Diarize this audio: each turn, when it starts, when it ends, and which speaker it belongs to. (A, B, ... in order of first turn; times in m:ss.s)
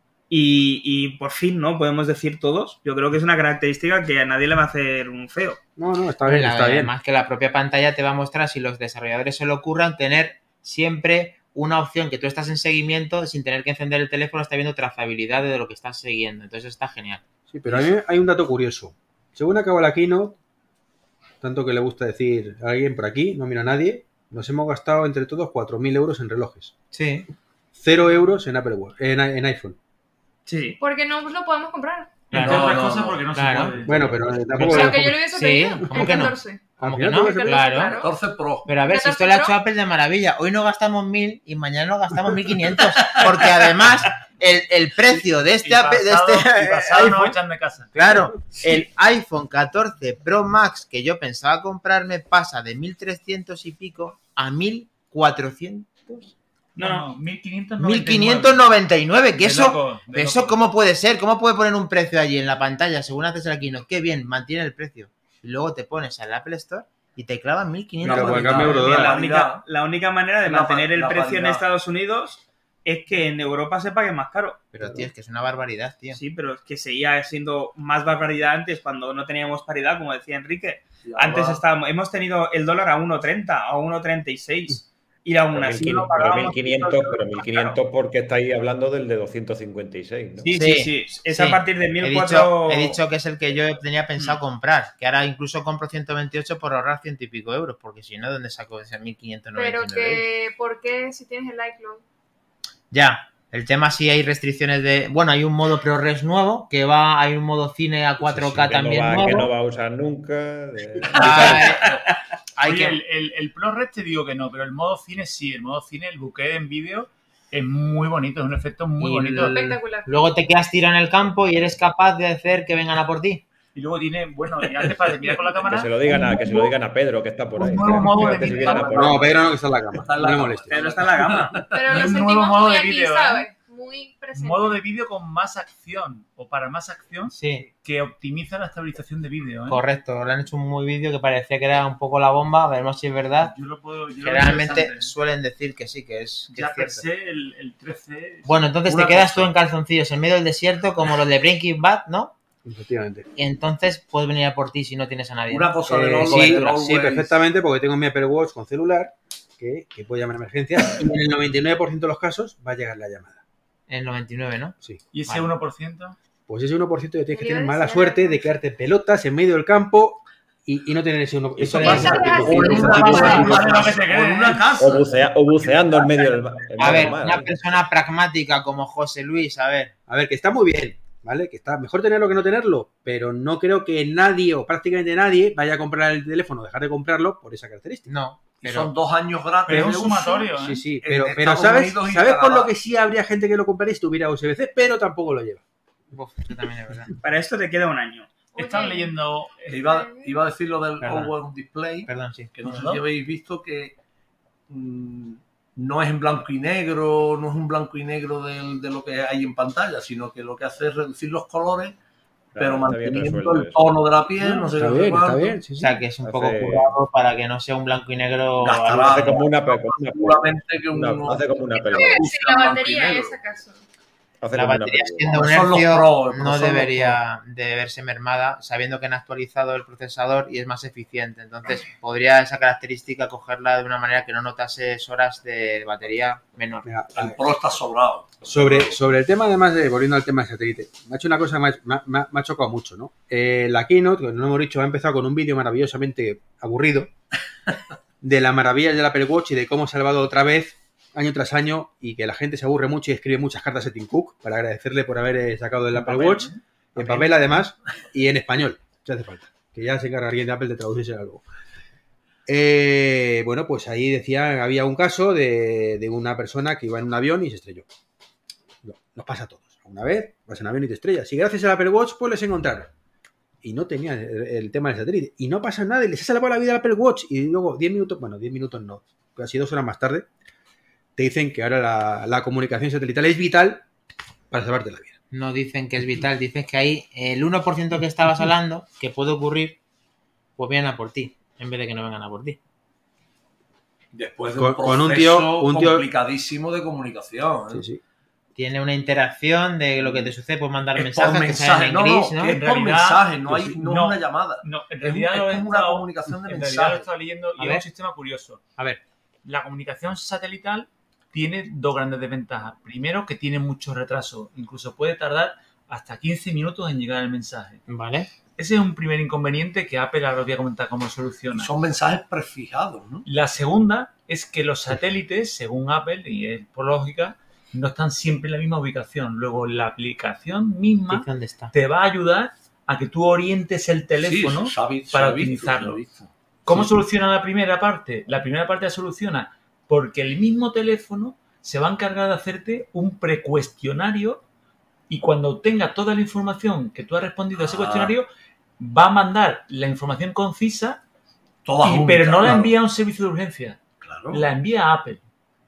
0:00.3-0:05.6 A
0:05.8-0:06.9 B
0:06.3-0:17.9 C
0:17.5-0:20.4 B
0:21.4-0:26.7 B
0:26.9-0:27.3 C
0:27.8-0:29.8 B
0:30.5-0:30.8 A
0:30.8-0:32.3 D
0:32.3-0:32.8 C
0:32.3-0:35.0 E
0:32.3-0:33.8 F
0:33.3-0:33.8 C
0:33.9-0:35.2 B
0:34.6-0:38.0 C
0:34.6-0:36.6 D
0:36.8-0:37.9 B
0:37.2-0:38.1 D
0:38.0-0:38.7 F
0:38.7-0:47.4 C
0:38.8-0:39.6 D
0:45.6-0:48.1 E
0:47.9-0:56.3 C
0:56.8-0:57.1 A
0:56.8-0:58.7 E
0:57.8-1:09.1 C
0:59.4-1:00.6 E
1:08.0-1:09.1 B
1:08.0-1:09.6 F
1:08.6-1:14.6 A
1:10.4-1:11.6 F
1:14.7-1:16.2 C
1:14.8-1:15.1 B
1:16.1-1:27.8 A
1:21.0-1:21.6 F
1:25.5-1:30.5 G
1:30.4-1:33.0 A
1:30.5-1:40.2 C
1:39.6-1:42.0 D
1:42.9-1:49.5 C
1:48.2-1:51.7 G
1:51.2-1:51.9 C
1:51.3-1:51.6 E
1:52.6-1:53.0 C
1:52.6-1:59.7 E
1:59.0-2:03.4 C
1:59.4-2:00.1 D
2:03.8-2:06.7 E
2:05.7-2:09.4 G
2:07.6-2:09.3 E
2:08.4-2:09.2 F
2:08.9-2:10.8 B
2:09.9-2:11.8 F
2:10.7-2:11.7 A
2:11.7-2:14.8 D
2:11.8-2:13.5 E
2:14.3-2:19.8 E
2:17.3-2:17.7 C
2:19.7-2:23.5 C
2:23.4-2:25.1 E
2:24.2-2:27.0 C
2:26.5-2:28.7 E
2:28.4-2:32.3 C
2:28.9-2:29.5 F
2:32.6-2:33.3 B
2:33.4-2:36.8 C
2:35.5-2:37.4 F
2:35.9-2:43.4 B
2:43.9-2:45.5 C
2:45.1-2:46.2 E
2:46.5-2:53.8 B
2:47.3-2:48.5 D
2:51.6-2:55.1 F
2:51.8-2:53.6 D
2:51.9-2:52.3 C
2:52.7-2:53.7 G
2:52.8-2:53.6 C
2:52.8-2:54.8 E
2:54.8-2:57.5 G
2:55.7-2:56.1 F
2:56.8-2:59.9 C
3:00.1-3:08.1 B
3:08.1-3:08.9 C
3:08.6-3:10.3 F
3:09.7-3:10.9 E
3:10.1-3:10.5 D
3:10.5-3:15.6 B
3:11.0-3:12.7 F
3:16.1-3:17.1 C
3:17.2-3:18.3 A
3:18.6-3:19.9 E
3:18.6-3:19.2 D
3:19.7-3:24.0 F
3:19.8-3:20.3 D
3:21.0-3:21.3 C
3:22.1-3:22.5 C
3:22.7-3:23.0 E
3:24.7-3:32.0 F
3:32.6-3:34.1 G
3:32.6-3:35.6 F
3:34.4-3:36.0 B
3:35.8-3:39.4 C
3:36.2-3:37.0 G
3:38.6-3:43.4 F
3:38.8-3:42.3 G
3:41.9-3:43.8 D
3:44.4-3:45.4 G
3:44.6-3:56.9 C
3:45.3-3:47.2 F
3:56.8-3:57.5 B
3:57.2-3:59.0 F
3:58.4-4:07.1 B
4:08.2-4:21.4 B
4:16.0-4:17.5 E
4:22.5-4:27.9 B
4:28.8-4:32.9 B
4:33.6-4:40.3 B
4:41.2-4:43.8 B
4:44.5-4:45.1 B
4:45.3-4:49.8 C
4:50.6-4:52.6 C
4:54.1-4:57.8 F
4:54.6-4:56.1 B
4:57.7-4:58.0 B
4:58.6-5:02.6 C
5:01.0-5:07.1 F
5:02.5-5:08.6 E
5:03.5-5:03.8 B
5:09.4-5:17.8 E
5:17.9-5:18.3 C
5:18.6-5:21.7 E
5:21.5-5:23.3 F
5:23.3-5:36.0 E
5:31.1-5:31.7 C
5:34.2-5:36.8 F
5:36.7-5:44.4 E
5:45.1-5:48.3 E
5:47.6-5:48.2 F
5:48.8-5:51.0 E
5:51.6-5:52.7 F
5:51.8-5:55.2 E
5:54.0-5:54.4 F